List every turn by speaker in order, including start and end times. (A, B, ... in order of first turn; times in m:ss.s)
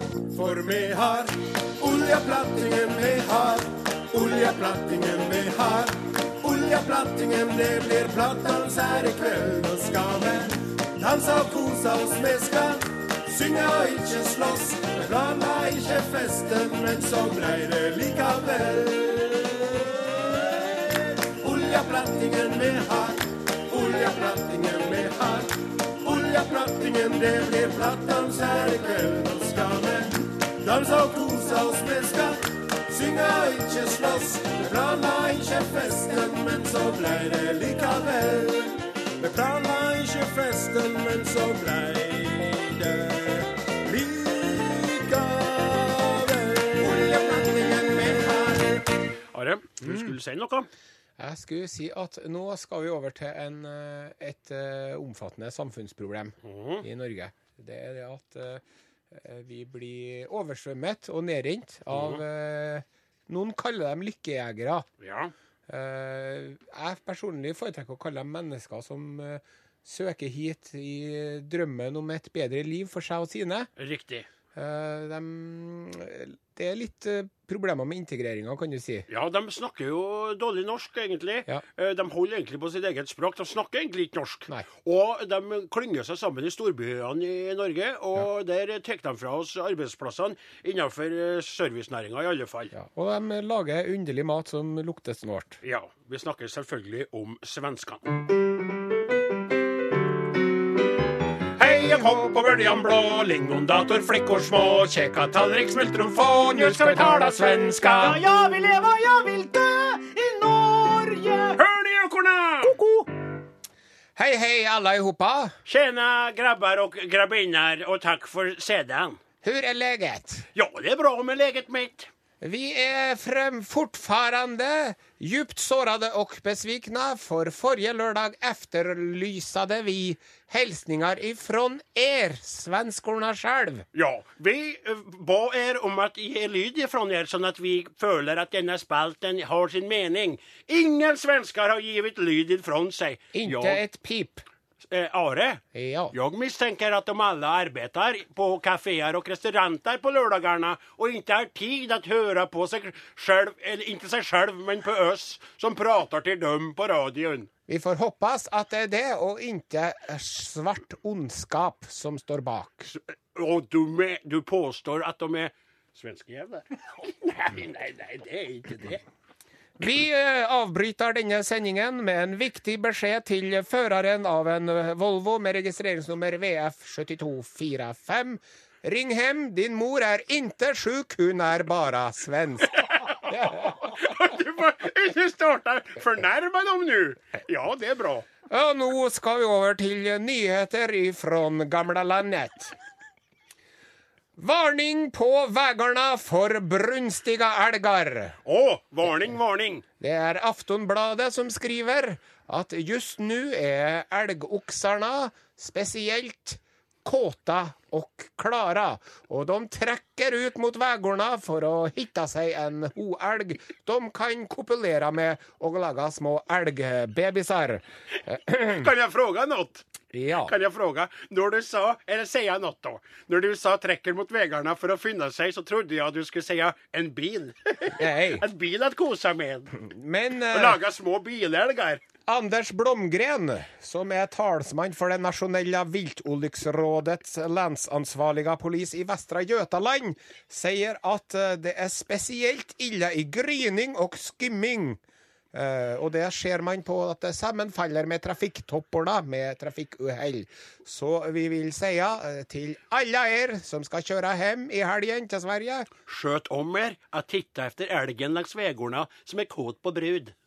0:00.3-0:48.9 A
0:49.3-0:50.7 B
0:51.2-1:04.9 C
0:56.4-0:56.8 B
1:01.9-1:02.2 B
1:05.0-1:05.3 B
1:05.7-1:13.7 C
1:13.8-1:14.3 B
1:14.5-1:19.0 C
1:19.1-1:32.7 B
1:32.7-1:35.6 C
1:35.6-1:38.0 B
1:41.6-1:48.0 B
1:46.2-1:48.2 C
1:47.9-1:51.6 D
1:51.5-1:52.7 B
1:52.6-1:53.1 D
1:54.2-1:55.5 C
1:55.6-1:59.2 B
1:59.4-2:00.5 C
2:00.5-2:02.1 B
2:02.4-2:13.8 C
2:13.9-2:23.8 B
2:23.3-2:24.4 C
2:24.9-2:37.5 B
2:25.7-2:26.1 C
2:37.7-2:42.9 C
2:42.9-2:49.0 B
2:49.8-3:03.8 C
3:02.8-3:08.3 B
3:08.5-3:12.7 C
3:14.4-3:18.4 C
3:18.4-3:19.8 B
3:20.0-3:38.9 C
3:38.5-3:39.8 B
3:40.1-3:40.5 C
3:40.4-3:49.8 B
3:47.9-3:48.4 C
3:49.8-3:50.8 C
3:50.5-3:52.0 B
3:52.3-4:05.0 C
4:05.5-4:15.9 C
4:16.1-4:20.3 B